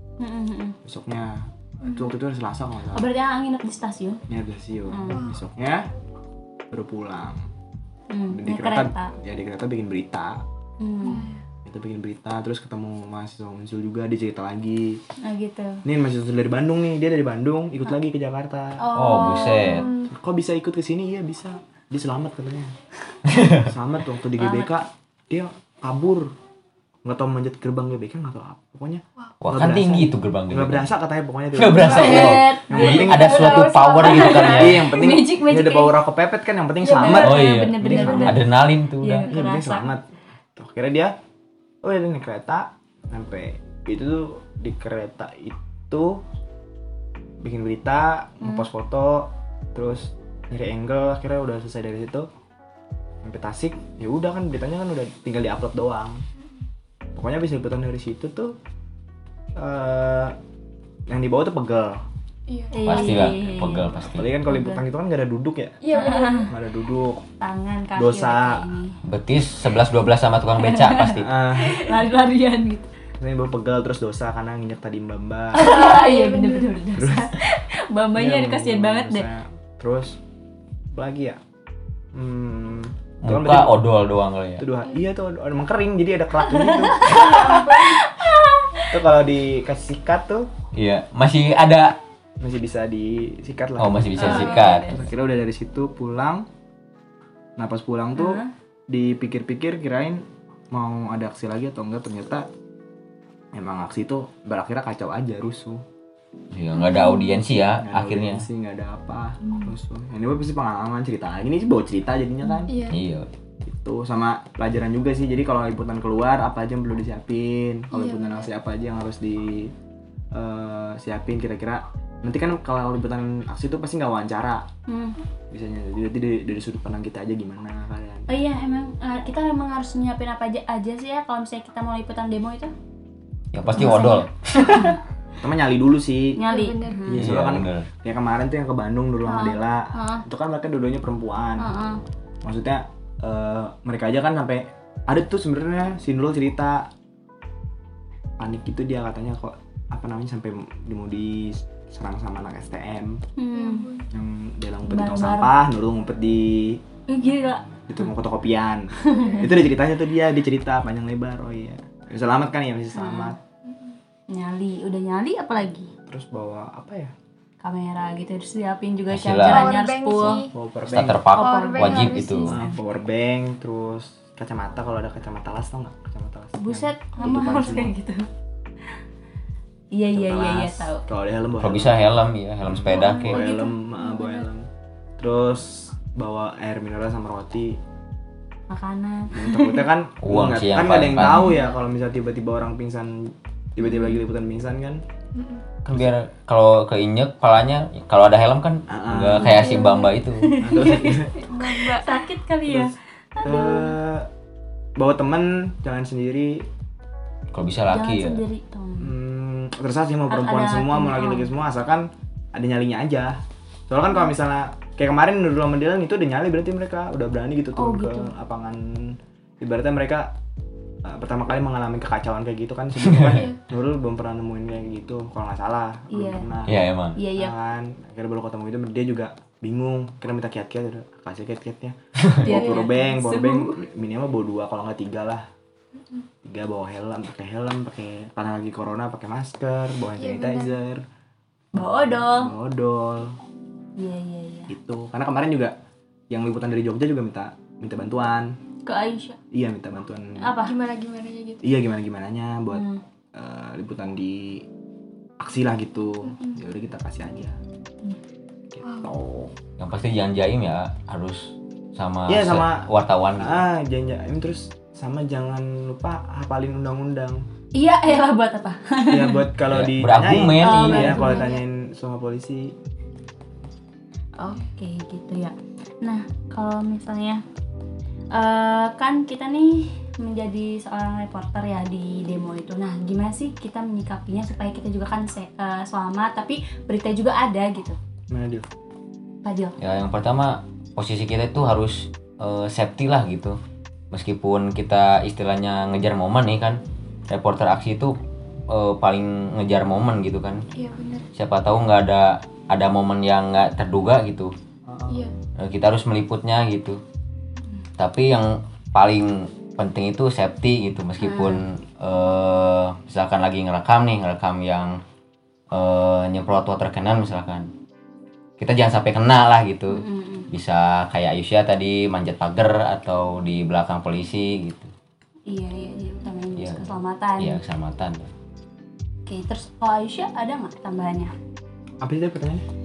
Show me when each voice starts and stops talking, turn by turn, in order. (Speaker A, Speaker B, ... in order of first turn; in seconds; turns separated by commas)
Speaker A: 0.2-0.8, Speaker B: 0.8-3.1, Speaker C: 1.8-2.1, Speaker A: 2.9-4.2, Speaker B: 4.3-5.9, Speaker A: 4.9-5.3, Speaker C: 5.1-5.4, Speaker B: 6.7-7.4, Speaker A: 8.1-9.1, Speaker B: 8.3-10.4, Speaker A: 10.8-11.3, Speaker C: 11.0-11.4, Speaker B: 11.6-15.0, Speaker A: 15.2-15.8, Speaker B: 15.8-18.9, Speaker A: 18.8-19.9, Speaker D: 18.9-19.9, Speaker C: 19.3-20.1, Speaker B: 20.1-22.7, Speaker D: 23.3-23.7, Speaker B: 23.6-26.3, Speaker A: 24.4-24.7, Speaker B: 27.1-33.6, Speaker D: 29.4-30.9, Speaker D: 31.6-34.9, Speaker C: 31.8-34.7, Speaker A: 31.8-36.0, Speaker B: 34.5-38.4, Speaker C: 36.8-37.6, Speaker A: 36.9-38.5, Speaker D: 37.1-39.3, Speaker A: 39.0-39.9, Speaker B: 39.3-40.0, Speaker B: 40.6-41.1, Speaker B: 41.8-46.2, Speaker B: 47.4-52.3, Speaker A: 48.4-48.7, Speaker B: 53.2-56.2, Speaker B: 57.2-58.5, Speaker B: 59.6-60.4, Speaker B: 61.1-62.0, Speaker C: 62.5-63.4, Speaker A: 62.7-63.9, Speaker D: 62.9-64.3, Speaker B: 64.0-66.0, Speaker A: 64.5-64.8, Speaker C: 65.8-66.5, Speaker A: 65.9-66.5, Speaker B: 66.5-67.2, Speaker A: 67.4-69.0, Speaker B: 68.0-68.6, Speaker D: 69.0-71.3, Speaker A: 70.6-72.9, Speaker B: 71.2-72.0, Speaker B: 73.2-75.9, Speaker A: 75.5-79.3, Speaker C: 75.6-76.8, Speaker B: 77.0-77.3, Speaker B: 78.1-80.2, Speaker B: 80.9-81.4, Speaker B: 82.1-83.7, Speaker D: 83.2-84.6, Speaker B: 84.6-87.5, Speaker A: 86.4-88.9, Speaker C: 87.0-88.0, Speaker B: 88.9-90.5, Speaker D: 90.7-92.0, Speaker B: 92.4-96.5, Speaker D: 93.8-95.0, Speaker A: 94.2-95.0, Speaker C: 94.2-94.8, Speaker B: 97.6-102.5, Speaker A: 98.2-98.5, Speaker B: 103.5-105.8, Speaker D: 106.5-108.5, Speaker A: 106.8-107.4, Speaker B: 107.8-112.7, Speaker C: 112.7-113.0, Speaker D: 112.9-113.3, Speaker B: 113.6-119.7, Speaker C: 117.9-118.5, Speaker B: 120.3-124.6, Speaker A: 124.9-125.2, Speaker B: 125.5-128.3, Speaker A: 128.3-132.7, Speaker D: 133.5-135.0, Speaker A: 133.7-134.9, Speaker B: 135.4-136.4, Speaker A: 136.4-137.3, Speaker C: 136.4-137.0, Speaker B: 137.1-141.7, Speaker D: 137.1-137.9, Speaker A: 139.3-140.2, Speaker A: 141.6-142.0, Speaker B: 142.4-146.9, Speaker B: 148.4-153.2, Speaker A: 153.4-153.9, Speaker C: 153.5-154.1, Speaker B: 154.1-156.8, Speaker A: 154.9-155.5, Speaker A: 157.1-157.6, Speaker B: 157.7-163.4, Speaker A: 159.1-159.5, Speaker C: 159.1-159.5, Speaker A: 162.9-163.3, Speaker C: 163.7-163.9, Speaker A: 164.3-165.9, Speaker B: 166.1-167.1, Speaker A: 167.6-170.5, Speaker D: 169.1-169.7, Speaker C: 169.4-170.5, Speaker B: 170.5-171.3, Speaker D: 170.9-172.6, Speaker C: 171.3-172.6, Speaker A: 171.4-172.7, Speaker B: 172.4-177.9, Speaker A: 176.6-178.3, Speaker C: 177.2-177.6, Speaker A: 179.9-181.0, Speaker B: 180.1-184.7, Speaker D: 181.6-183.4, Speaker A: 182.9-183.7, Speaker C: 183.2-184.3, Speaker B: 185.2-187.8, Speaker A: 188.7-189.8, Speaker B: 189.3-195.0, Speaker D: 190.2-191.6, Speaker A: 193.8-194.2, Speaker C: 195.3-195.6, Speaker D: 195.8-200.6, Speaker B: 198.9-199.6, Speaker A: 199.4-203.9, Speaker B: 200.6-201.3, Speaker C: 201.5-202.2, Speaker B: 202.7-204.3, Speaker B: 205.0-206.6, Speaker D: 207.5-208.4, Speaker A: 207.9-209.1, Speaker B: 209.0-220.3, Speaker A: 210.3-211.5, Speaker A: 217.8-218.3, Speaker B: 221.0-226.8, Speaker D: 223.0-223.4, Speaker A: 226.1-226.5, Speaker D: 226.7-227.2, Speaker A: 227.2-227.5, Speaker B: 227.3-235.4, Speaker A: 232.4-233.8, Speaker C: 232.5-232.9, Speaker B: 236.4-241.0, Speaker C: 240.2-240.8, Speaker A: 241.8-242.5, Speaker B: 241.8-243.3, Speaker A: 244.0-244.7, Speaker B: 244.7-245.7, Speaker B: 246.3-248.6, Speaker A: 248.9-249.4, Speaker B: 249.5-250.6, Speaker A: 250.4-250.8, Speaker C: 250.6-251.6, Speaker B: 251.6-252.8, Speaker A: 252.7-253.0, Speaker B: 253.3-254.6, Speaker B: 255.4-257.6, Speaker B: 258.8-259.5, Speaker C: 258.9-259.1, Speaker D: 259.8-263.6, Speaker B: 262.3-262.9, Speaker B: 263.4-267.4, Speaker A: 267.8-269.4, Speaker B: 269.1-272.7, Speaker D: 269.7-271.3, Speaker A: 270.6-271.6, Speaker A: 274.4-277.4, Speaker A: 278.3-288.0, Speaker B: 288.3-288.7, Speaker A: 289.4-289.8, Speaker D: 289.8-293.6, Speaker D: 294.1-298.2, Speaker D: 298.7-300.6, Speaker C: 300.8-301.3, Speaker D: 301.4-304.5, Speaker B: 304.9-305.2, Speaker D: 305.6-307.0, Speaker D: 308.0-315.0, Speaker A: 311.2-311.6, Speaker D: 315.7-317.7, Speaker D: 318.6-324.9, Speaker A: 319.9-320.5, Speaker A: 325.5-327.6, Speaker D: 326.6-326.9, Speaker D: 327.4-328.3, Speaker A: 329.3-331.3, Speaker B: 332.0-332.6